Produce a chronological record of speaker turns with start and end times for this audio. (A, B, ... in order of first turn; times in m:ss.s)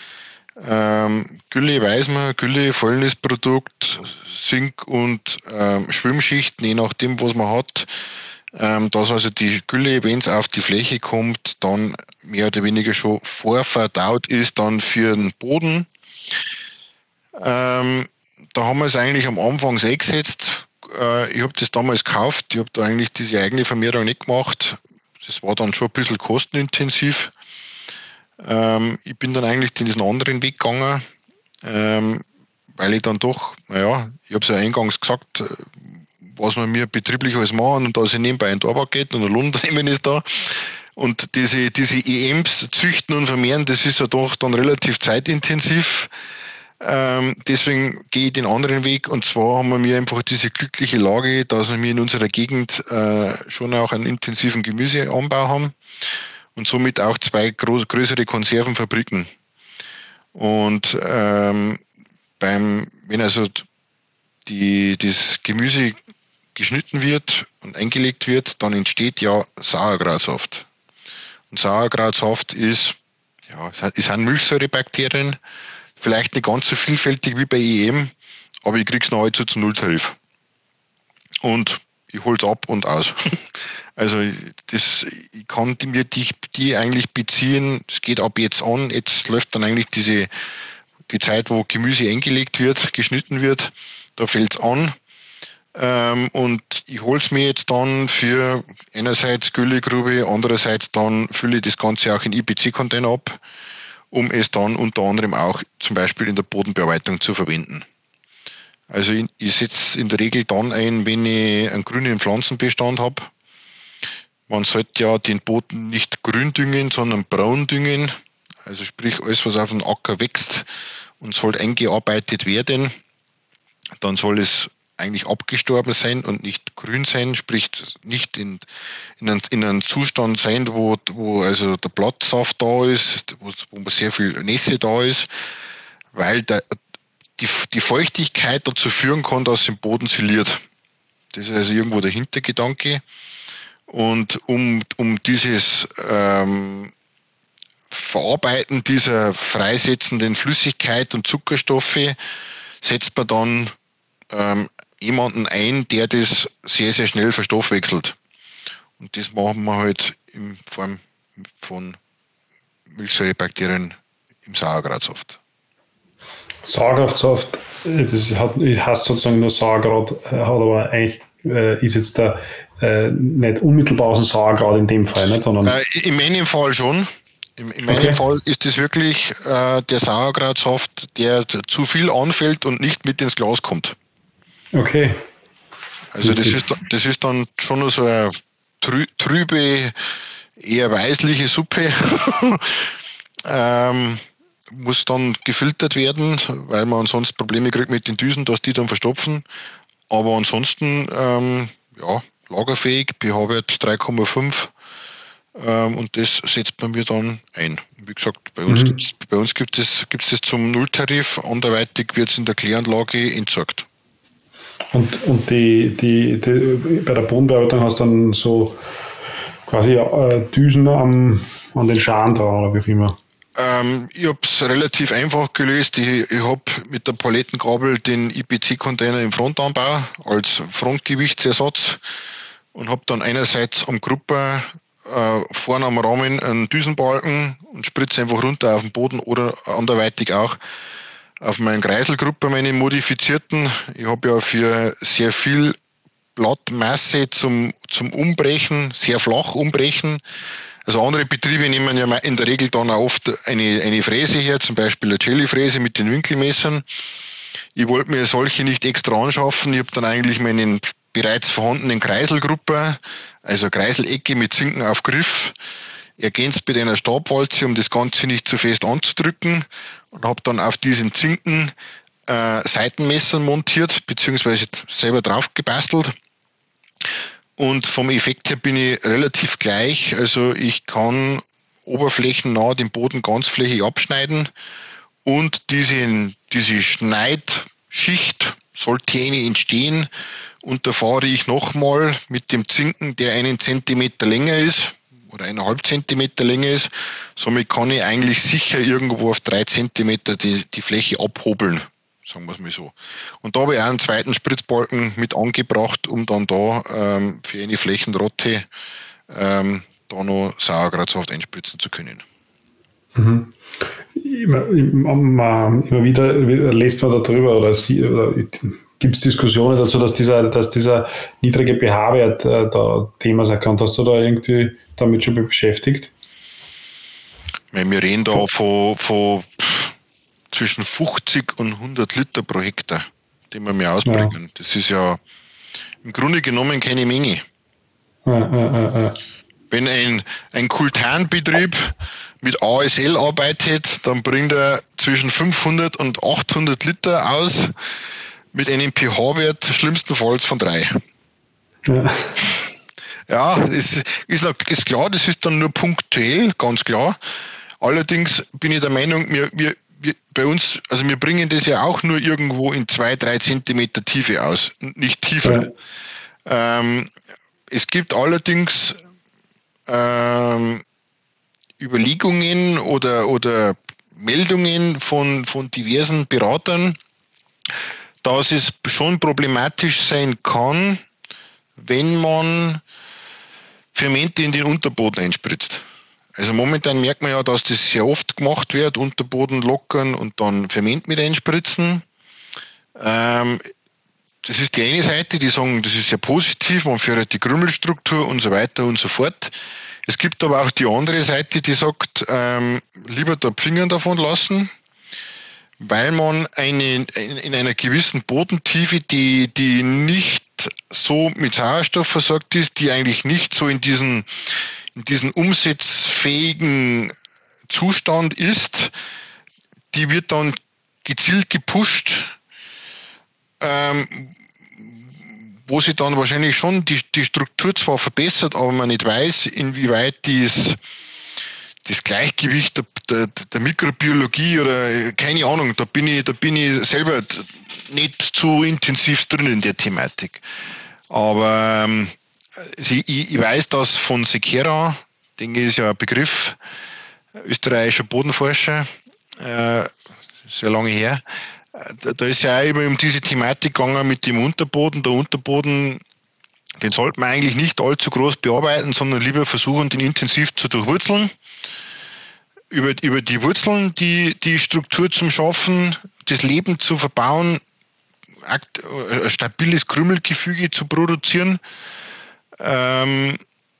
0:00.6-0:07.9 A
0:08.5-0:15.9 A
0:17.4-0:27.3 A
0:28.4-0:31.0 A
0:31.6-0:32.2 A
0:32.8-0:46.1 A
0:46.8-0:55.8 A
0:56.6-0:59.3 A
1:00.3-1:01.8 A
1:02.4-1:03.6 A
1:04.4-1:06.0 A
1:06.5-1:10.7 A
1:11.5-1:13.0 A
1:13.5-1:15.4 A
1:16.0-1:18.1 A
1:18.6-1:20.2 A
1:21.4-1:30.3 A
1:31.1-1:34.9 A
1:35.7-1:43.4 A
1:44.1-1:47.8 A
1:48.9-1:53.3 A
1:54.5-1:58.1 A
1:58.6-2:00.7 A
2:01.2-2:02.9 A
2:04.0-2:08.6 A
2:09.2-2:15.3 A
2:16.1-2:16.8 A
2:17.4-2:20.6 A
2:21.3-2:23.0 A
2:23.9-2:26.9 A
2:27.9-2:32.2 A
2:32.8-2:33.7 A
2:34.3-2:38.2 A
2:39.0-2:41.0 A
2:41.6-2:42.0 A
2:42.9-2:45.4 A
2:46.6-2:55.7 B
2:55.6-3:03.9 A
2:57.8-2:58.2 B
3:04.7-3:05.2 B
3:06.1-3:09.9 A
3:06.2-3:06.6 B
3:10.6-3:19.4 A
3:20.1-3:24.7 A
3:25.6-3:33.8 A
3:28.7-3:29.0 B
3:34.9-3:38.8 B
3:39.6-3:43.2 B
3:43.6-3:52.0 A
3:52.7-4:00.6 A
4:01.4-4:05.8 A
4:06.4-4:10.2 A
4:10.8-4:16.8 A
4:17.7-4:25.5 A
4:26.2-4:31.7 A
4:32.3-4:36.1 A
4:37.6-4:44.5 A
4:45.2-4:50.1 A
4:50.6-5:08.7 A
5:09.3-5:12.2 A
5:13.2-5:26.1 B
5:27.7-5:29.9 A
5:30.5-5:35.2 A
5:34.0-5:34.3 B
5:36.0-5:37.4 A
5:38.2-5:39.2 B
5:39.7-5:47.7 A
5:48.5-5:51.0 A
5:51.8-5:52.4 B
5:53.3-5:57.2 A
5:57.8-6:05.7 A
6:05.4-6:05.7 B
6:06.4-6:07.1 A
6:07.7-6:09.0 A
6:09.9-6:10.8 A
6:11.8-6:17.0 A
6:18.2-6:21.0 A
6:21.8-6:22.8 A
6:23.9-6:25.8 A
6:26.3-6:32.0 A
6:33.0-6:33.6 A
6:34.4-6:44.7 A
6:45.8-6:57.1 A
6:57.7-6:58.9 A
6:59.9-7:02.3 A
7:03.6-7:10.8 A
7:11.8-7:20.4 A
7:21.1-7:26.6 A
7:27.4-7:29.9 A
7:30.4-7:36.0 A
7:36.8-7:41.3 A
7:42.7-7:47.6 A
7:48.4-7:51.6 A
7:52.6-7:53.4 A